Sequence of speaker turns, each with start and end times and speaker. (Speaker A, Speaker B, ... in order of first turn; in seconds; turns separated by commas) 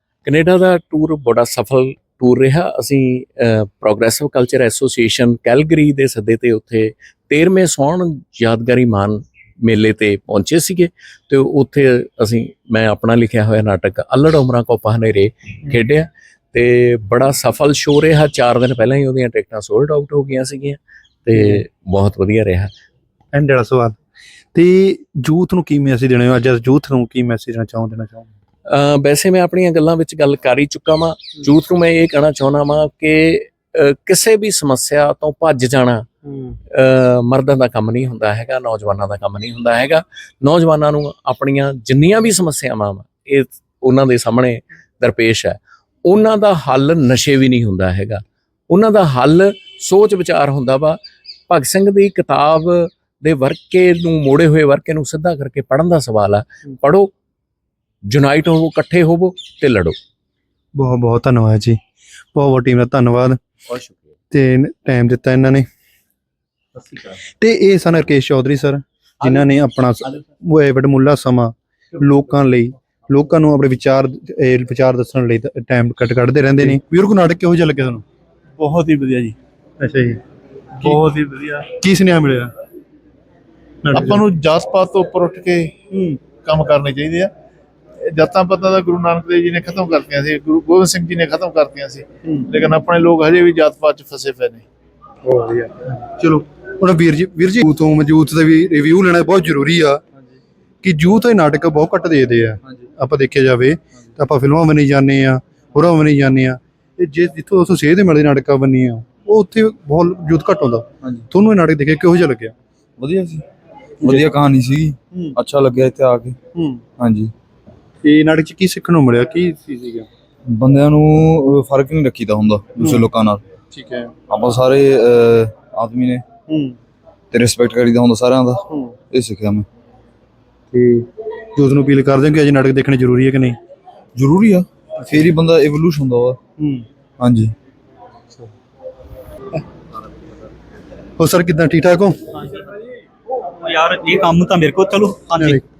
Speaker A: 0.2-22.7, Speaker B: 21.3-21.6, Speaker B: 23.3-24.0, Speaker B: 24.5-28.3, Speaker A: 28.7-36.1, Speaker A: 36.7-51.0, Speaker A: 51.5-57.1, Speaker A: 58.1-59.9, Speaker B: 60.7-61.8, Speaker B: 62.3-63.4, Speaker B: 64.3-65.6, Speaker B: 67.4-78.0, Speaker C: 78.6-79.3, Speaker B: 79.8-80.2, Speaker C: 80.8-81.7, Speaker B: 81.8-82.5, Speaker B: 83.8-84.2, Speaker C: 83.9-87.3, Speaker B: 85.9-86.2, Speaker C: 88.0-94.6, Speaker B: 95.2-100.0, Speaker B: 100.8-112.5, Speaker D: 113.0-113.4, Speaker D: 114.0-116.4, Speaker B: 115.1-115.4, Speaker B: 116.5-116.8, Speaker D: 117.0-117.3, Speaker B: 118.0-120.1, Speaker D: 120.5-123.4, Speaker B: 122.8-123.0, Speaker B: 123.7-124.1, Speaker D: 124.3-126.2, Speaker B: 126.5-126.8, Speaker D: 127.3-129.7, Speaker B: 128.7-128.9, Speaker B: 130.7-133.6, Speaker D: 134.1-136.4, Speaker B: 136.6-136.8, Speaker D: 137.2-137.5, Speaker B: 141.2-142.1, Speaker E: 142.4-142.7, Speaker E: 143.4-145.6, Speaker B: 145.4-145.6